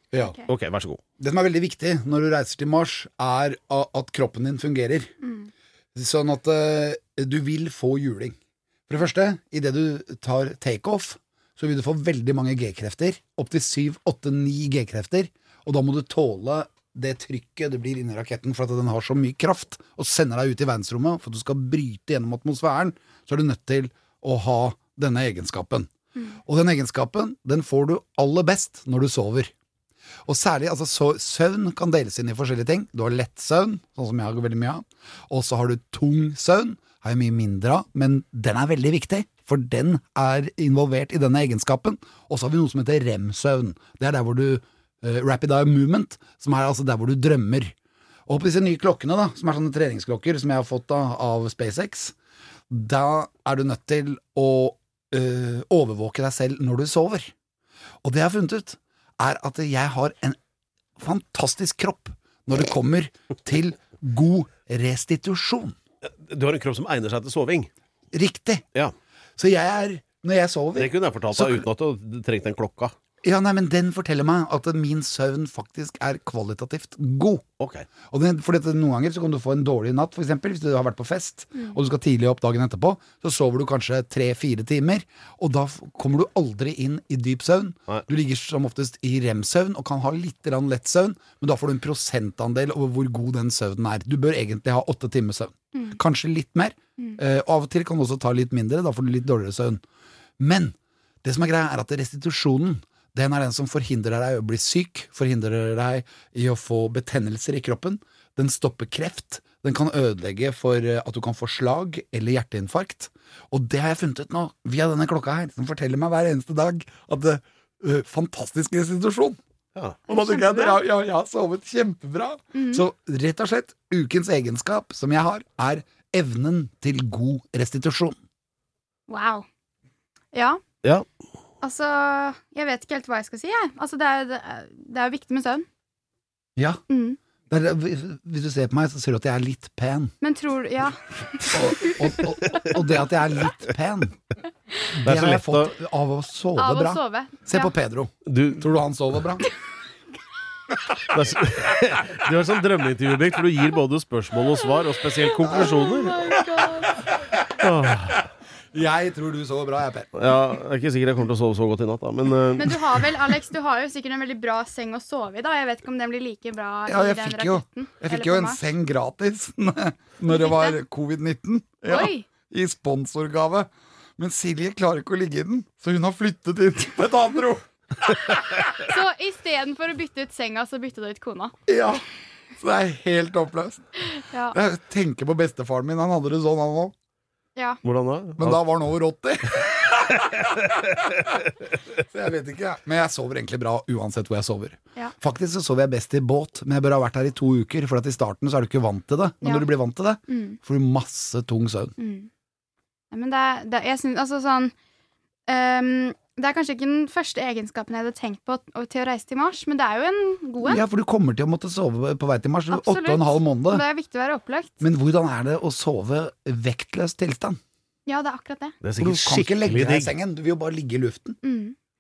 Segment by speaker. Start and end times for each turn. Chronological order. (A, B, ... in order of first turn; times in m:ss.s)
0:00.2-0:00.5 A
0:00.5-0:01.0 B
0:01.2-0:05.1 C
0:05.2-0:05.5 A
0:06.0-0:08.4 C
0:08.9-0:25.9 C
0:26.5-0:29.5 C
0:30.3-0:47.7 C
0:48.3-0:52.2 C
0:52.7-0:57.3 C
0:58.0-1:00.4 C
1:01.0-1:05.8 C
1:06.0-1:07.7 B
1:08.1-1:08.6 C
1:09.4-1:11.6 C
1:10.8-1:12.9 B
1:13.2-1:17.4 C
1:17.6-1:17.9 B
1:18.1-1:39.8 C
1:40.4-1:59.4 C
1:59.8-2:00.0 B
2:00.1-2:00.8 A
2:00.1-2:08.2 C
2:02.5-2:02.8 A
2:09.1-2:09.5 A
2:10.3-2:10.6 A
2:11.6-2:15.7 A
2:16.6-2:16.8 C
2:16.9-2:17.2 A
2:17.5-2:20.1 C
2:20.2-2:22.0 A
2:21.5-2:24.2 C
2:24.9-2:29.5 C
2:25.0-2:25.7 B
2:26.6-2:27.7 A
2:28.3-2:28.7 B
2:31.1-2:36.3 B
2:35.4-2:37.0 A
2:37.5-2:38.3 B
2:38.7-2:40.1 C
2:40.2-2:43.1 B
2:42.6-2:48.6 A
2:46.9-2:57.7 C
2:50.3-2:50.8 A
2:51.9-2:52.3 A
2:58.6-3:01.6 A
3:01.7-3:02.0 C
3:02.6-3:03.9 C
3:04.2-3:04.6 A
3:04.5-3:06.9 C
3:07.6-3:07.8 A
3:07.8-3:08.6 B
3:08.4-3:10.5 C
3:10.1-3:11.4 B
3:12.0-3:21.9 C
3:19.4-3:19.7 A
3:20.3-3:20.6 A
3:22.0-3:22.3 A
3:23.1-3:24.7 A
3:25.5-3:30.8 A
3:30.6-3:33.8 C
3:32.7-3:34.8 A
3:34.8-3:37.6 C
3:38.1-3:38.8 A
3:38.8-3:40.1 B
3:39.0-3:41.4 C
3:41.4-3:41.8 A